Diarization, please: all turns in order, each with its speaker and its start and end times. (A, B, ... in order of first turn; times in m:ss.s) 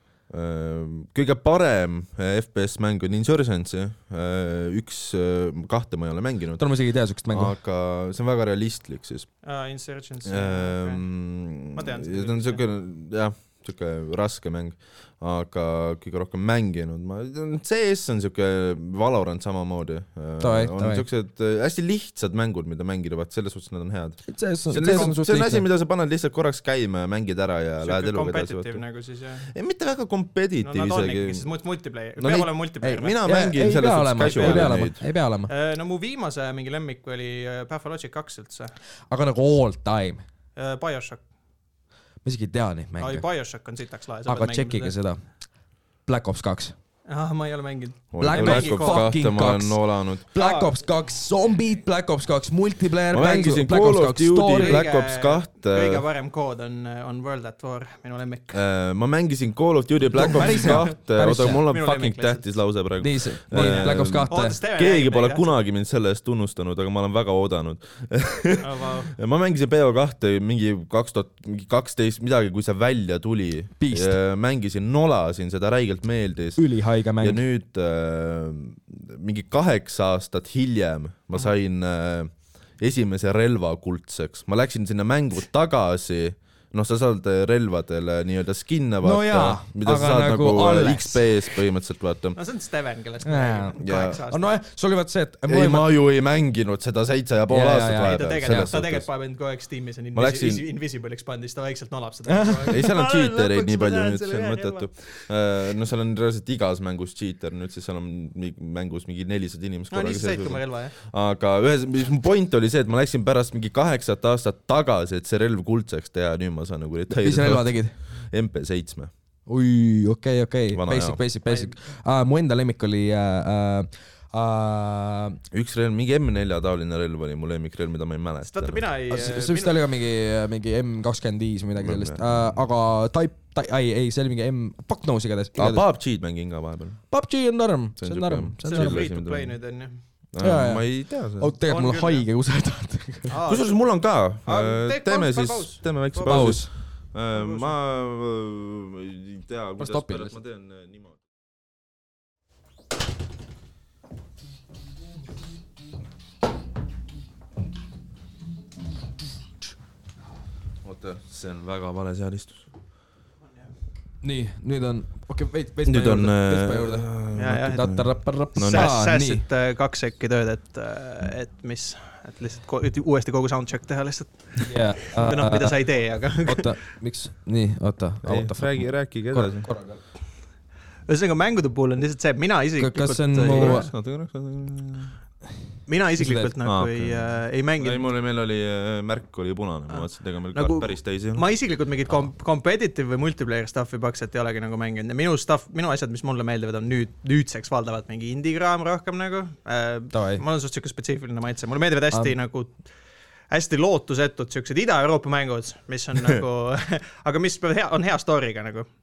0:00.3-0:06.7 A
0:06.6-0:07.6 B
0:07.3-0:09.3 A
0:09.4-0:11.1 C
0:10.3-0:28.8 A
0:11.7-0:12.6 C
0:20.4-0:21.0 B
0:24.3-0:25.7 B
0:24.8-0:25.1 C
0:27.8-0:29.5 C
0:29.5-0:31.5 A
0:30.6-0:33.2 C
0:32.2-0:35.0 A
0:33.2-0:35.5 B
0:34.2-0:34.9 C
0:35.5-0:38.7 C
0:39.1-0:40.2 B
0:40.6-0:41.2 C
0:42.2-0:43.2 B
0:43.0-0:45.0 C
0:44.3-0:45.2 B
0:46.1-0:46.8 B
0:47.1-0:49.1 C
0:48.1-0:50.3 A
0:48.2-0:54.8 B
0:50.4-0:50.8 C
0:53.1-0:56.0 A
0:54.5-0:58.6 C
0:58.5-1:16.6 A
1:00.1-1:01.6 B
1:00.3-1:02.6 C
1:03.0-1:04.6 B
1:03.5-1:05.5 C
1:08.6-1:09.2 C
1:13.8-1:14.2 B
1:16.6-1:17.4 B
1:17.2-1:32.4 A
1:29.0-1:31.3 B
1:32.4-1:34.5 C
1:33.2-1:35.9 B
1:33.8-1:34.2 A
1:35.5-1:39.1 A
1:37.5-1:38.2 B
1:38.0-1:44.9 C
1:40.2-1:40.6 A
1:42.3-1:42.8 B
1:42.7-1:59.1 A
1:49.9-1:51.0 C
1:57.1-1:57.9 B
1:59.5-2:05.4 B
2:00.7-2:01.2 A
2:01.5-2:01.7 C
2:05.5-2:08.8 A
2:08.5-2:09.8 C
2:09.1-2:15.8 B
2:11.8-2:12.6 A
2:15.6-2:17.0 A
2:17.1-2:19.0 B
2:18.0-2:19.6 A
2:18.6-2:20.0 C
2:20.3-2:21.5 A
2:20.4-2:23.4 B
2:21.7-2:22.3 C
2:23.3-2:26.6 C
2:23.5-2:31.1 A
2:26.3-2:26.7 B
2:27.3-2:27.7 C
2:29.8-2:30.4 B
2:40.8-2:42.6 A
2:44.2-2:49.4 B
2:45.9-2:48.9 A
2:47.4-2:47.9 C
2:48.6-2:56.7 C
2:54.6-2:55.8 B
2:56.4-3:00.0 B
2:58.2-2:59.7 A
3:01.1-3:03.9 C
3:02.8-3:03.9 B
3:03.4-3:05.1 A
3:05.9-3:08.0 C
3:06.2-3:06.5 B
3:06.6-3:11.4 A
3:09.9-3:22.8 C
3:20.1-3:20.4 B
3:23.5-3:28.9 C